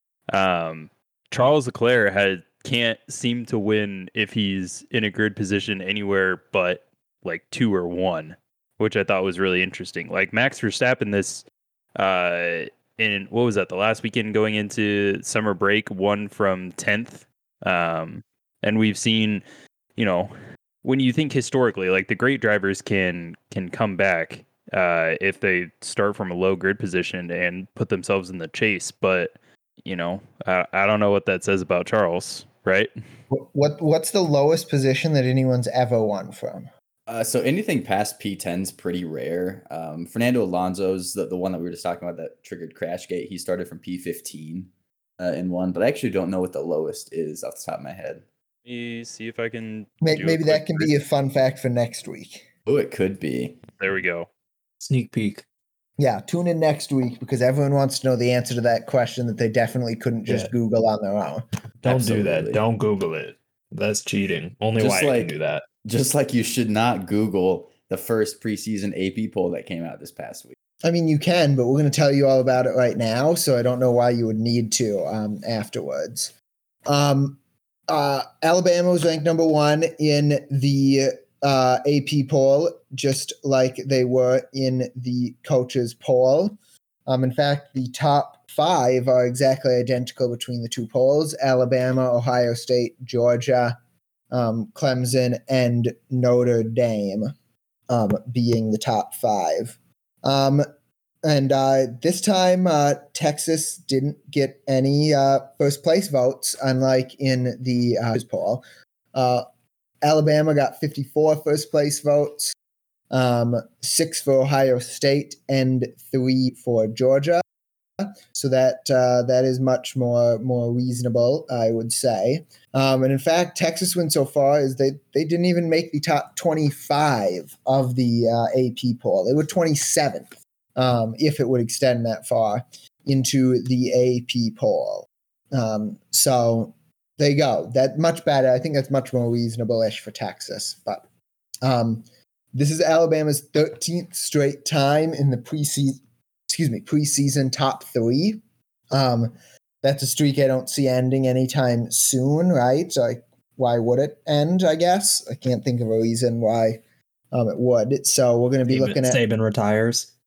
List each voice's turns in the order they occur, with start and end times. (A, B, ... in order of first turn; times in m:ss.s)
0:00.3-0:11.4 A
0:12.0-0:19.4 A
0:20.0-0:20.3 A
0:20.8-0:32.9 A
0:33.3-0:36.7 B
0:37.1-0:48.2 C
0:48.6-0:51.0 A
0:50.0-0:52.4 B
0:52.6-0:53.6 C
0:53.8-0:54.3 A
0:54.8-0:55.4 D
0:56.0-1:01.4 B
1:00.2-1:00.5 D
1:01.8-1:05.6 D
1:01.8-1:02.6 C
1:04.8-1:10.6 C
1:10.8-1:16.3 B
1:16.9-1:26.6 B
1:27.1-1:33.8 B
1:34.3-1:37.3 B
1:37.9-1:40.6 B
1:41.2-1:49.4 B
1:50.0-1:52.5 B
1:53.1-1:57.4 B
1:58.0-2:21.0 B
2:21.6-2:28.4 B
2:28.9-2:36.8 B
2:37.3-2:39.2 B
2:38.7-2:40.1 D